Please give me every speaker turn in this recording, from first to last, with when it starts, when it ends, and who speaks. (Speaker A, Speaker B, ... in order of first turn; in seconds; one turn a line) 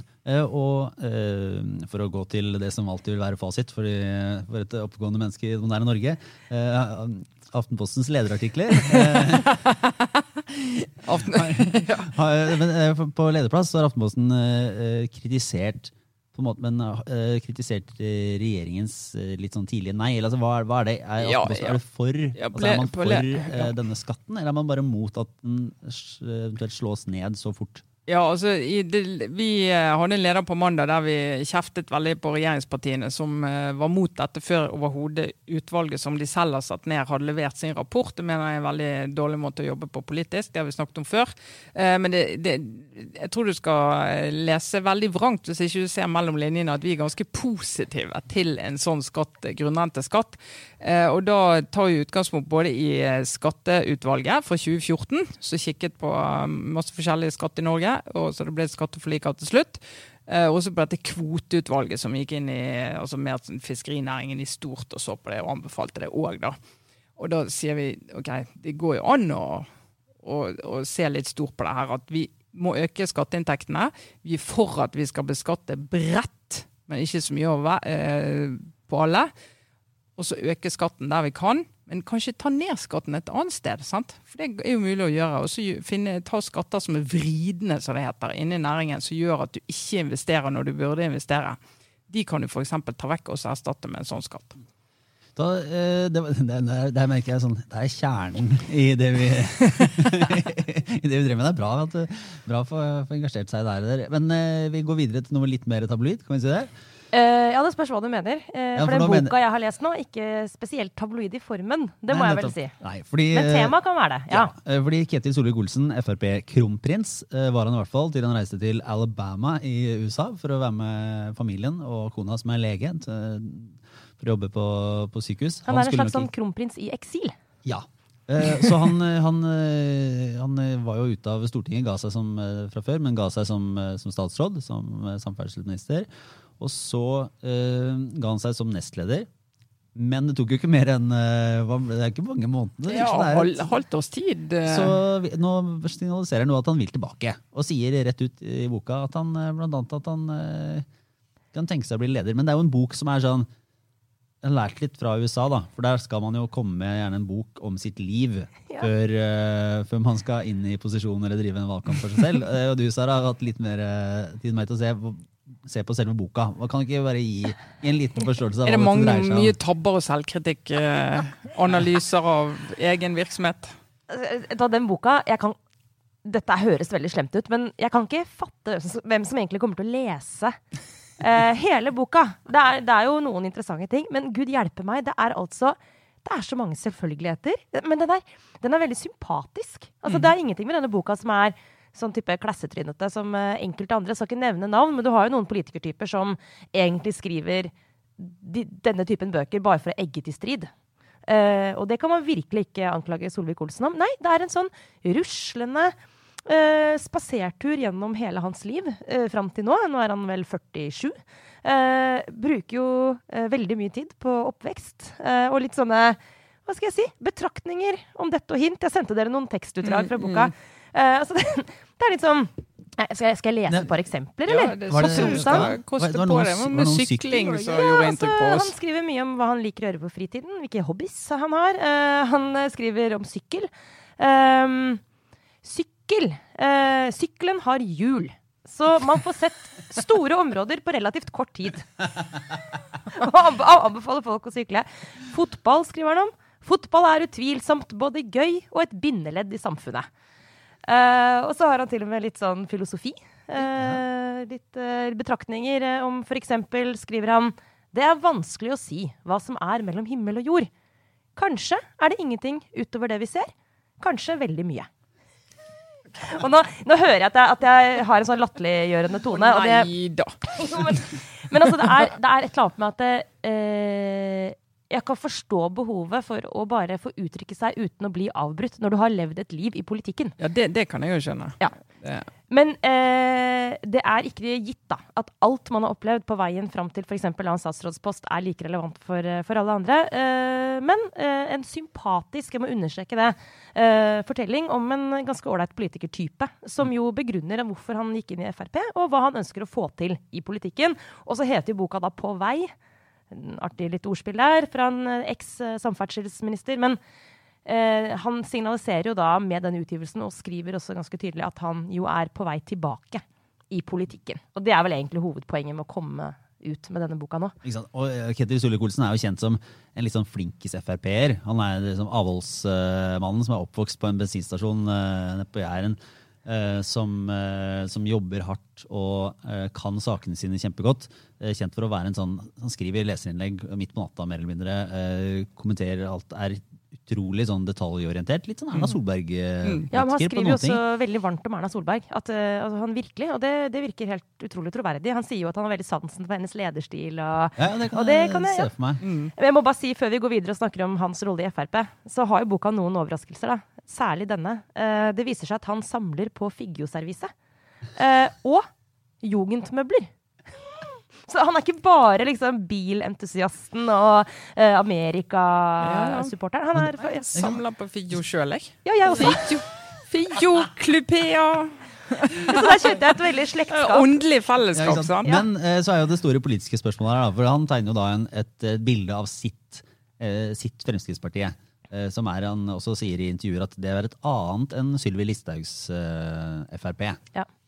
Speaker A: 0.2-9.6
Speaker B: 8.9-12.1
Speaker A: 11.1-27.9
Speaker B: 21.2-21.8
Speaker B: 22.4-23.7
Speaker B: 28.1-66.6
Speaker B: 67.2-69.7
Speaker B: 70.2-79.3
Speaker B: 80.2-91.6
Speaker B: 92.1-94.6
Speaker A: 95.4-106.7
Speaker C: 107.1-112.7
Speaker A: 108.8-109.3
Speaker A: 112.1-113.8
Speaker C: 113.3-114.5
Speaker A: 114.3-126.3
Speaker C: 125.7-127.3
Speaker A: 127.6-136.1
Speaker A: 136.6-139.3
Speaker A: 139.9-143.7
Speaker B: 142.9-145.0
Speaker A: 144.7-150.9
Speaker A: 151.5-153.5
Speaker A: 154.4-169.6
Speaker B: 168.7-173.8
Speaker C: 174.1-175.6
Speaker C: 176.2-180.6
Speaker C: 181.2-200.7
Speaker C: 201.3-205.9
Speaker C: 206.5-225.7
Speaker B: 219.8-220.5
Speaker B: 224.5-228.7
Speaker A: 224.9-227.5
Speaker C: 227.4-235.0
Speaker C: 235.6-241.9
Speaker C: 243.1-250.1
Speaker C: 250.8-260.7
Speaker C: 261.4-264.9
Speaker C: 266.2-269.9
Speaker B: 269.3-271.0
Speaker C: 270.5-280.4
Speaker B: 280.4-282.3
Speaker C: 282.5-302.7
Speaker C: 303.3-307.0
Speaker C: 307.7-317.6
Speaker A: 317.6-340.8
Speaker C: 339.9-348.7
Speaker A: 347.6-349.0
Speaker B: 349.0-349.3
Speaker C: 349.4-357.3
Speaker C: 358.0-358.7
Speaker C: 359.2-367.3
Speaker B: 365.8-366.3
Speaker A: 366.8-367.6
Speaker B: 367.1-373.1
Speaker C: 368.9-369.6
Speaker C: 372.4-374.1
Speaker B: 373.7-375.4
Speaker A: 374.7-387.2